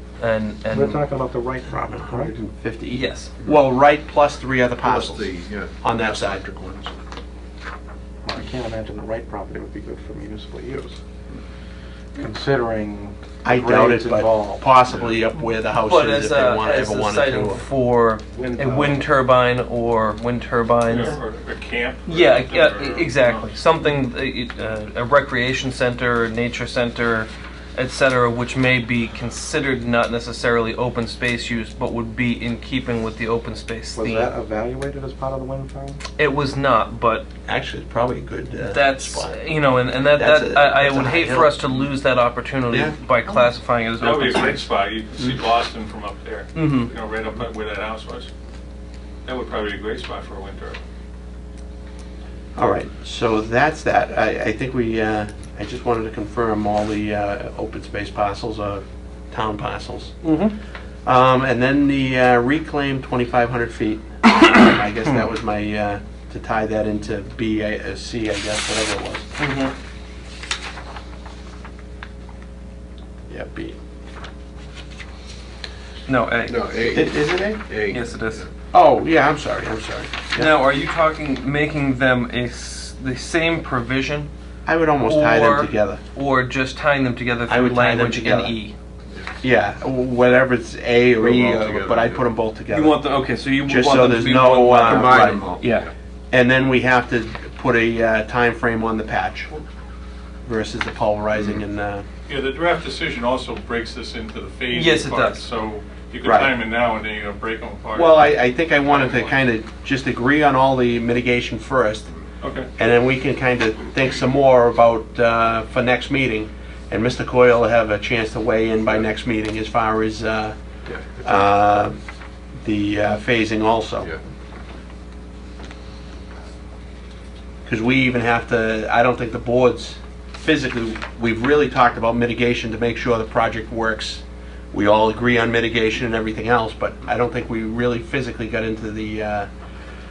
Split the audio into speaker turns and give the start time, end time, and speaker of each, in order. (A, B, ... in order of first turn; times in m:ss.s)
0:00.2-0:01.1 A
0:00.7-0:02.4 B
0:01.8-0:05.3 C
0:02.9-0:03.3 A
0:04.8-0:07.0 D
0:05.8-0:06.4 C
0:08.2-0:11.0 B
0:12.2-0:14.7 B
0:13.4-0:17.6 C
0:15.8-0:21.2 A
0:18.4-0:18.9 B
0:20.9-0:23.5 E
0:22.1-0:34.3 A
0:34.0-0:36.0 B
0:36.2-0:37.3 A
0:37.5-0:39.4 C
0:38.6-0:44.7 A
0:40.1-0:41.9 C
0:42.7-0:43.0 C
0:44.0-0:48.3 E
0:46.5-0:46.9 A
0:49.3-0:50.8 E
0:52.6-1:00.2 C
1:00.2-1:00.6 A
1:01.0-1:09.3 C
1:09.4-1:09.7 A
1:13.3-1:13.8 C
1:16.1-1:17.1 A
1:16.5-1:18.5 D
1:16.9-1:17.6 C
1:17.9-1:18.5 A
1:18.7-1:20.6 C
1:20.4-1:24.3 A
1:24.7-1:26.0 C
1:25.0-1:28.8 A
1:27.5-1:28.6 C
1:29.4-1:33.0 C
1:31.2-1:32.2 D
1:32.7-1:35.9 A
1:33.6-1:35.6 C
1:34.8-1:35.9 D
1:36.3-1:39.6 C
1:40.4-1:42.0 C
1:41.4-1:41.6 D
1:42.3-1:49.4 E
1:44.7-1:45.4 A
1:46.2-1:46.6 C
1:47.9-1:52.1 C
1:52.4-1:52.7 E
1:52.8-2:00.6 C
2:00.9-2:01.5 D
2:01.2-2:02.0 C
2:02.6-2:04.1 C
2:07.7-2:19.5 C